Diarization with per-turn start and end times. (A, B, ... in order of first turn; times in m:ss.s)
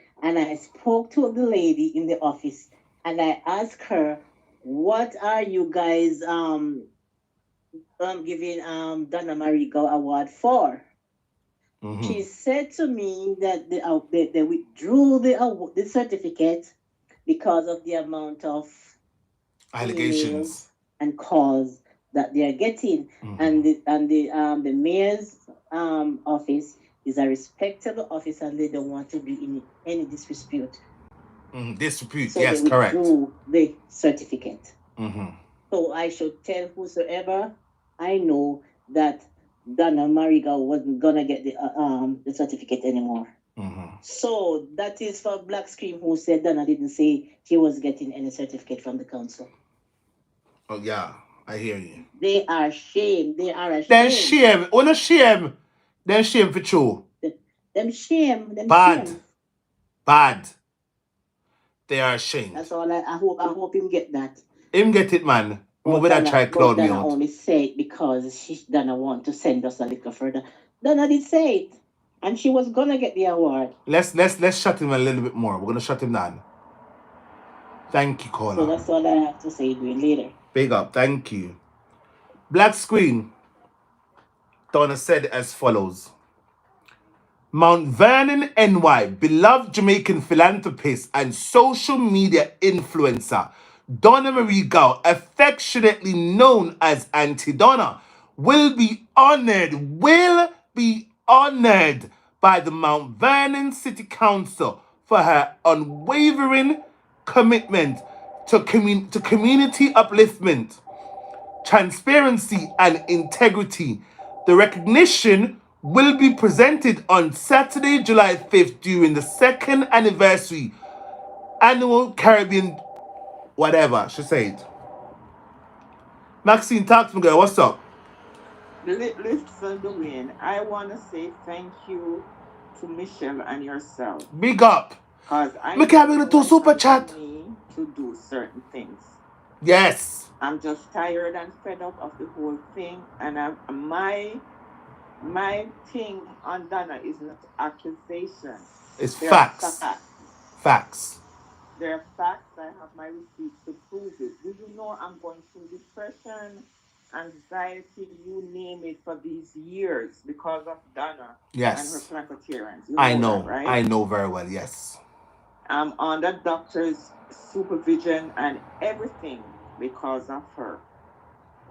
0:00.2-0:06.9 A
0:08.0-0:10.9 A
0:11.8-0:12.2 B
0:12.0-0:16.7 A
0:17.3-0:19.0 A
0:19.7-0:20.7 B
0:19.8-0:30.8 A
0:23.2-0:23.6 B
0:31.5-0:33.1 B
0:32.3-0:34.7 A
0:35.0-0:35.4 B
0:35.7-0:43.3 A
0:43.6-0:44.0 B
0:44.0-0:49.5 A
0:50.7-0:52.0 B
0:52.1-0:54.4 A
0:53.9-0:55.5 B
0:56.1-0:57.0 B
0:57.2-0:59.2 A
0:58.7-0:59.2 B
1:00.1-1:00.6 B
1:01.9-1:02.7 B
1:02.5-1:04.4 A
1:04.7-1:07.1 B
1:05.8-1:13.7 A
1:13.9-1:16.4 B
1:17.9-1:18.8 B
1:18.5-1:20.4 A
1:20.5-1:21.6 B
1:22.5-1:23.3 B
1:24.7-1:26.1 B
1:27.5-1:50.8 B
1:51.6-2:00.8 B
2:01.6-2:02.8 B
2:03.6-2:04.7 B
2:06.4-2:07.8 B
2:08.8-2:14.3 C
2:14.3-2:15.0 B
2:15.3-2:19.2 C
2:15.8-2:17.1 B
2:19.6-2:20.3 B
2:20.4-2:24.4 C
2:25.2-2:30.0 C
2:29.0-2:29.8 B
2:30.6-2:31.2 B
2:31.8-2:43.8 C
2:41.5-2:42.1 B
2:43.0-2:45.0 B
2:45.7-2:50.8 C